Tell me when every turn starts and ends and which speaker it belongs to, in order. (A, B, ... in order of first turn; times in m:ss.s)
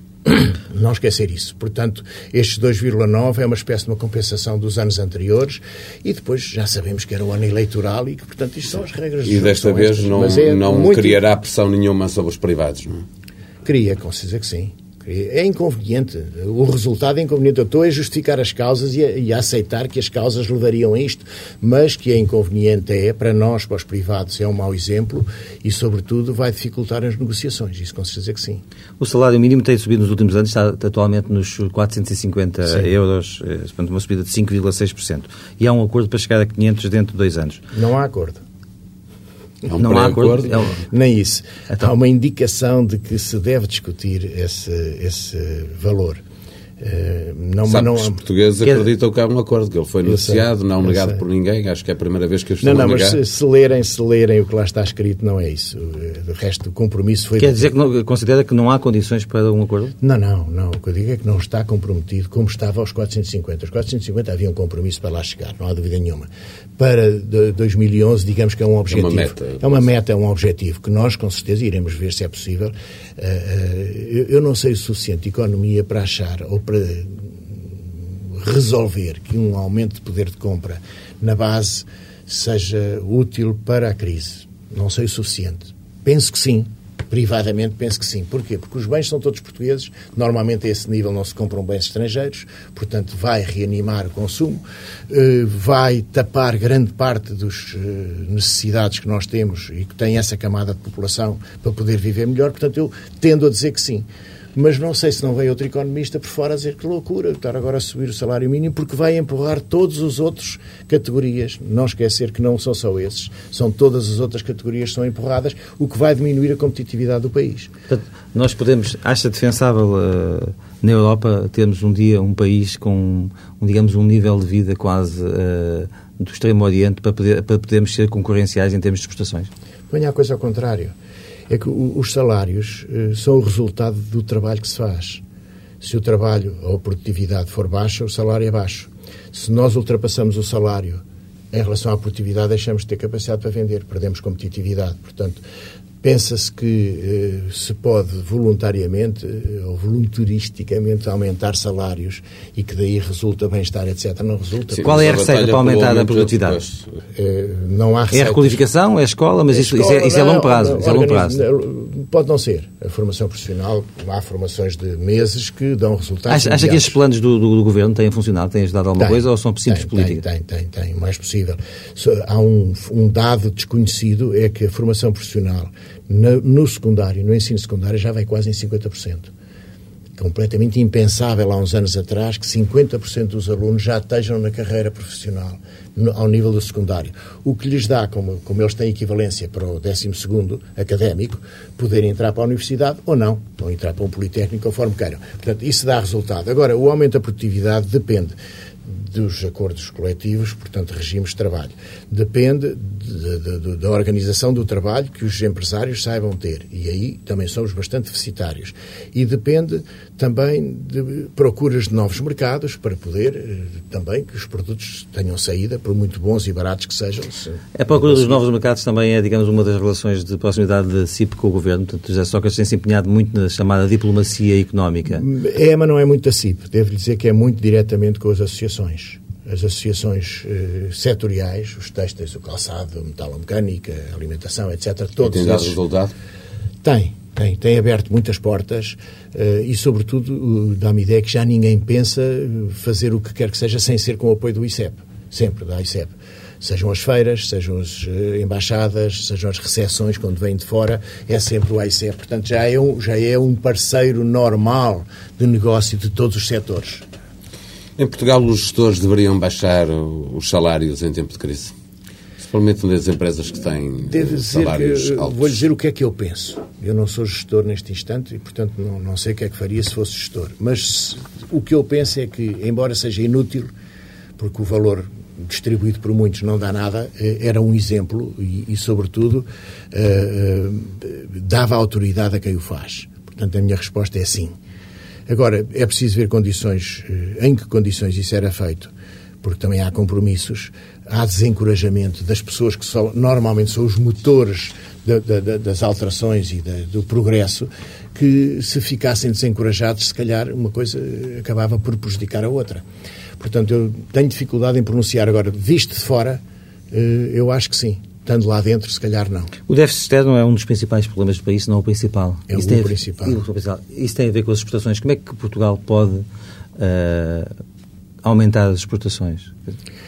0:00.2-0:11.2 A
0:09.3-0:13.0 B
0:13.6-0:28.6 A
0:29.0-0:37.6 C
0:37.7-0:38.4 A
0:39.7-0:40.6 B
0:39.7-0:40.8 C
0:40.8-0:46.2 A
0:46.8-0:48.2 A
0:47.7-0:53.2 B
0:50.0-0:51.2 A
0:52.6-0:57.7 A
0:57.4-1:00.0 C
1:00.0-1:57.7 A
1:08.9-1:09.8 B
1:57.9-2:09.5 C
2:09.9-2:10.9 A
2:11.5-2:15.2 A
2:15.8-2:25.4 A
2:26.0-2:35.1 A
2:34.7-2:36.9 B
2:34.8-2:36.6 C
2:37.2-2:38.6 A
2:38.1-2:41.4 C
2:39.5-2:47.0 A
2:46.3-2:50.2 C
2:49.0-2:59.3 A
3:00.2-3:38.4 A
3:37.8-3:45.2 C
3:45.1-3:55.8 A
3:55.2-3:56.1 B
3:56.8-4:17.1 A
4:18.0-4:21.7 B
4:22.4-4:25.5 B
4:24.1-4:33.7 A
4:34.4-4:44.6 A
4:45.3-5:02.8 A
5:03.4-5:09.6 A
5:09.7-5:16.2 C
5:12.5-5:13.4 A
5:16.8-5:17.5 C
5:18.2-5:19.6 C